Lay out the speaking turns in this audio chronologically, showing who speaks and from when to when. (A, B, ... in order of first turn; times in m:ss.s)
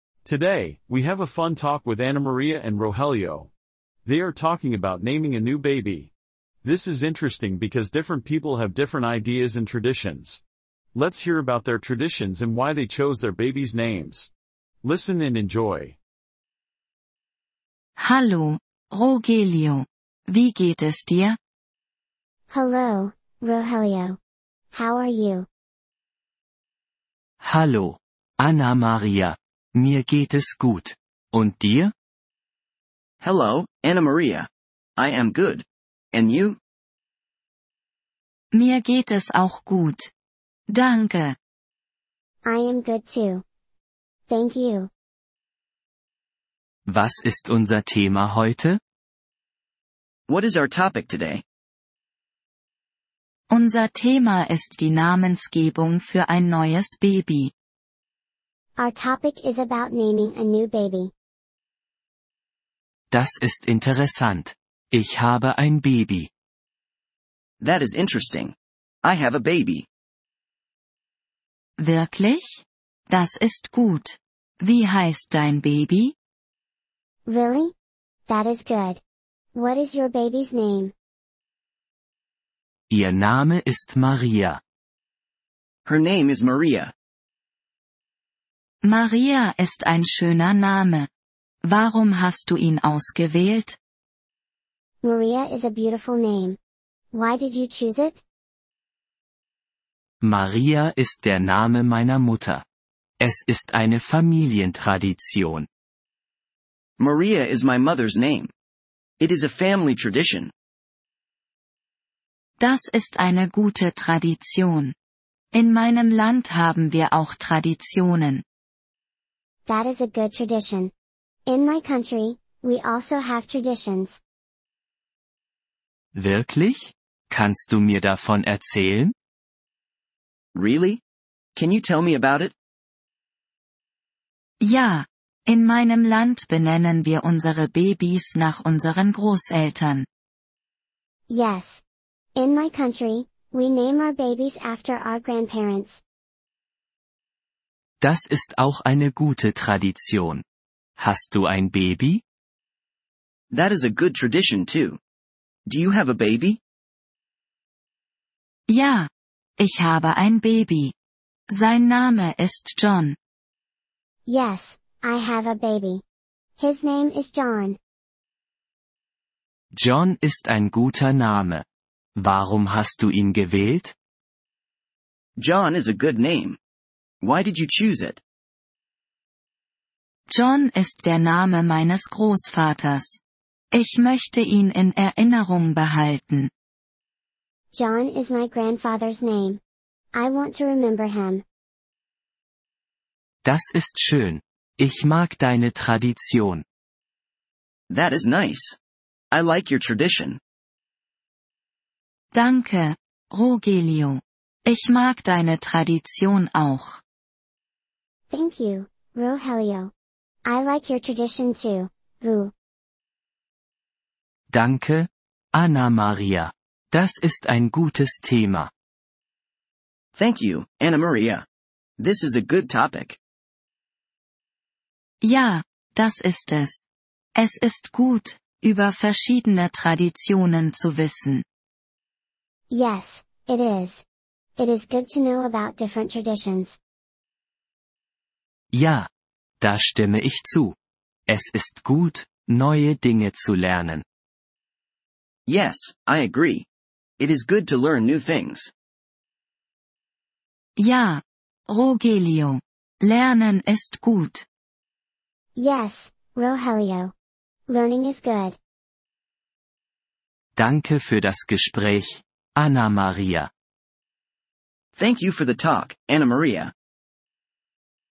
0:00.2-0:03.5 A
0:04.0-0:06.1 A
0:06.6-0:10.4 A
0:10.9-0:14.3 A
0:14.8-0:16.0 A
0:18.0-0:21.4 B
0:22.5-0:24.2 C
0:24.7-0:25.5 C
0:27.4-0:31.9 D
0:33.2-0:36.6 E
0:38.5-0:40.1 B
0:40.7-0:41.4 B
0:42.5-0:43.4 C
0:44.3-0:44.9 C
0:46.9-0:48.8 D
0:50.3-0:51.4 E
0:53.5-0:57.5 B
0:58.8-1:01.1 C
1:03.1-1:06.3 D
1:07.6-1:09.9 E
1:11.8-1:16.2 B
1:17.3-1:17.7 C
1:18.3-1:19.0 C
1:19.5-1:20.9 C
1:22.9-1:24.6 D
1:25.9-1:26.9 E
1:28.8-1:31.1 B
1:31.6-1:33.8 B
1:35.0-1:36.6 C
1:37.1-1:38.2 C
1:40.2-1:42.6 D
1:43.2-1:45.6 D
1:47.0-1:48.5 E
1:49.2-1:50.5 E
1:52.6-1:55.0 B
1:55.5-1:58.4 B
1:59.7-2:00.9 C
2:01.5-2:04.2 C
2:06.2-2:09.1 D
2:10.6-2:11.0 E
2:11.6-2:12.6 E
2:14.6-2:20.1 B
2:21.3-2:21.8 C
2:22.4-2:26.0 C
2:28.0-2:30.4 D
2:31.0-2:32.2 D
2:33.5-2:35.0 E
2:35.7-2:36.6 E
2:38.7-2:40.9 B
2:41.5-2:43.2 B
2:44.3-2:46.0 C
2:46.6-2:47.8 C
2:49.8-2:51.6 D
2:52.2-2:53.9 D
2:55.4-2:56.6 E
2:57.2-2:58.2 E
3:00.3-3:03.2 B
3:03.7-3:06.5 B
3:07.7-3:09.6 C
3:10.1-3:11.4 C
3:13.5-3:16.6 D
3:17.9-3:18.8 E
3:19.3-3:20.4 E
3:22.3-3:27.0 B
3:28.3-3:29.9 C
3:30.4-3:32.5 C
3:34.5-3:38.7 D
3:40.2-3:41.4 E
3:42.0-3:43.2 E
3:45.2-3:46.8 B
3:47.4-3:51.4 B
3:52.7-3:54.0 C
3:54.6-3:56.8 C
3:58.8-3:59.1 D
3:59.6-4:00.8 D
4:01.3-4:04.0 D
4:05.5-4:06.7 E
4:07.2-4:08.7 E
4:10.8-4:14.5 B
4:15.6-4:17.1 C
4:17.7-4:18.6 C
4:20.6-4:23.5 D
4:25.0-4:26.7 E